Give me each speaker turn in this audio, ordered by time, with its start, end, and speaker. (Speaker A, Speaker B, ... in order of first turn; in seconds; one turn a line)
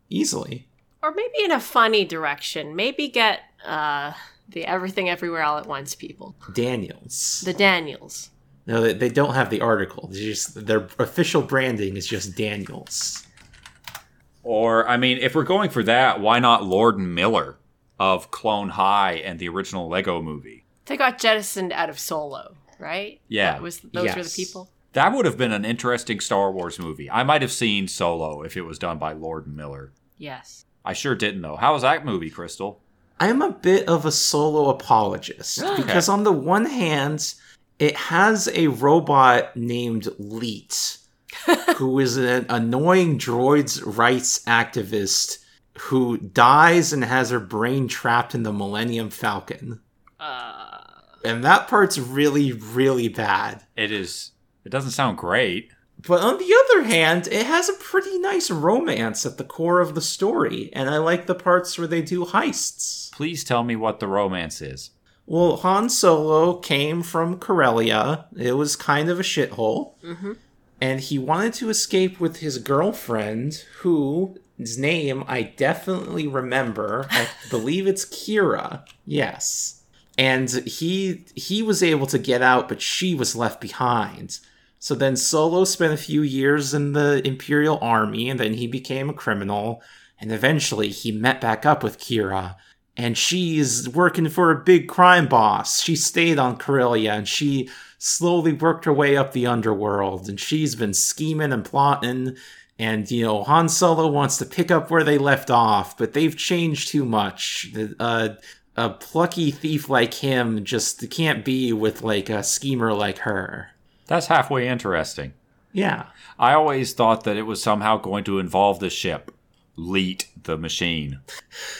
Speaker A: 0.1-0.7
Speaker B: 1.0-6.3
Speaker A: 6.5-7.5
Speaker B: 7.4-8.3
Speaker A: 8.7-13.2
Speaker C: 14.4-20.6
Speaker B: 20.9-24.7
Speaker C: 23.3-23.6
Speaker A: 23.9-24.6
Speaker C: 24.9-29.9
Speaker B: 30.2-30.6
Speaker C: 30.8-32.8
Speaker A: 33.2-41.0
Speaker C: 35.6-36.1
Speaker A: 41.7-49.8
Speaker B: 50.2-51.0
Speaker A: 51.2-53.6
Speaker C: 53.8-55.7
Speaker A: 56.0-63.1
Speaker C: 63.1-64.9
Speaker A: 65.3-70.0
Speaker B: 70.0-70.4
Speaker A: 70.8-113.7
Speaker C: 114.1-115.3
Speaker A: 115.7-116.1
Speaker C: 116.4-121.2